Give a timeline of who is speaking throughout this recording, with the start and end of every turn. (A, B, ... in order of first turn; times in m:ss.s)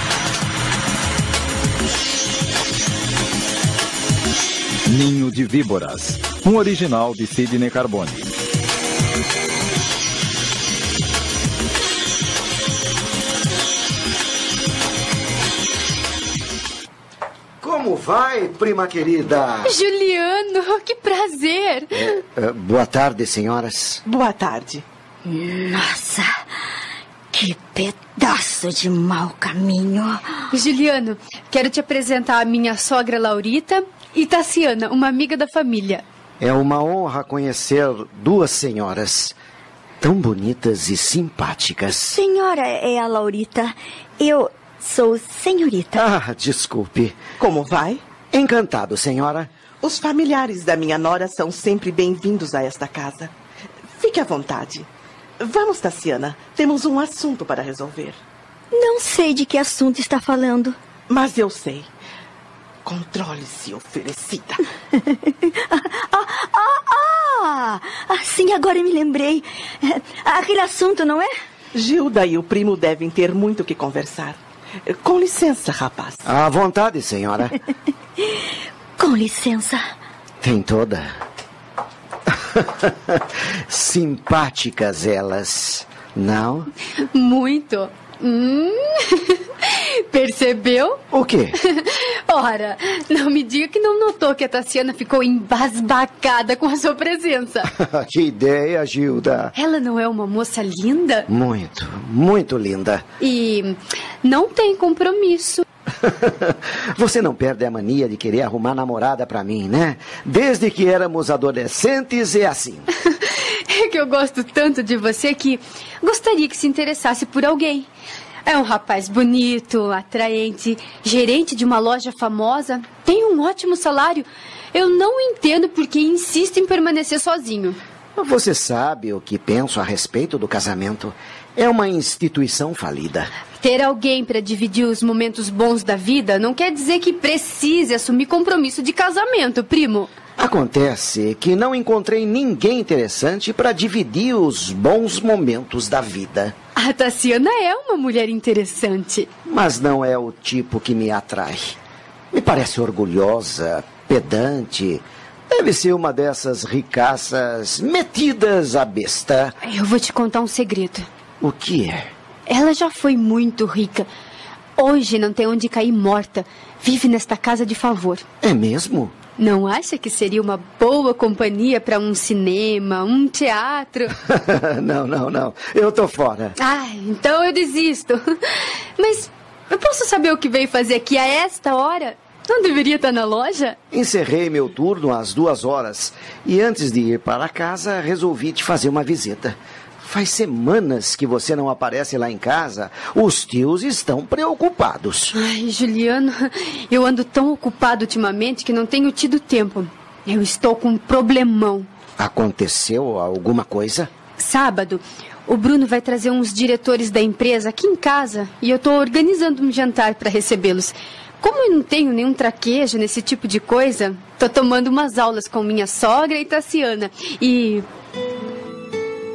0:04.8-0:08.3 A
0:17.6-0:19.7 B
0:19.6-0:22.0 C
0:21.9-0:24.0 B
0:24.0-0:24.8 D
0:25.2-0:26.3 E
0:27.3-0:30.4 E
0:30.5-0:36.0 C
0:36.4-0:39.3 B
0:40.0-0:42.2 B
0:41.9-0:46.0 E
0:46.0-0:47.2 B
0:47.4-0:48.0 D
0:48.3-0:49.5 B
0:49.8-0:53.3 D
0:54.0-0:54.9 D
0:55.4-0:58.2 D
0:58.7-1:00.8 E
1:01.1-1:01.9 D
1:02.8-1:04.6 D
1:04.9-1:11.3 E
1:11.7-1:16.3 D
1:16.2-1:17.6 B
1:19.0-1:19.8 E
1:20.4-1:21.1 B
1:22.6-1:26.7 B
1:27.1-1:31.0 C
1:31.1-1:31.5 B
1:31.6-1:37.7 C
1:37.7-1:39.5 B
1:39.5-1:41.3 C
1:41.3-1:43.0 B
1:43.2-1:45.6 C
1:46.0-1:52.9 B
1:53.1-1:57.9 C
1:58.4-2:07.8 C
2:08.2-2:13.3 B
2:13.6-2:20.1 C
2:20.4-2:26.5 B
2:26.8-2:29.3 C
2:29.5-2:31.7 B
2:32.3-2:39.5 B
2:39.6-2:41.1 C
2:41.4-2:42.1 B
2:42.5-2:44.1 C
2:44.8-2:48.2 C
2:48.4-2:49.1 B
2:49.4-2:54.1 C
2:54.3-2:56.5 B
2:56.6-2:58.2 C
2:59.0-3:03.8 C
3:03.9-3:15.3 B
3:15.3-3:21.9 C
3:22.2-3:24.1 B
3:24.4-3:37.8 C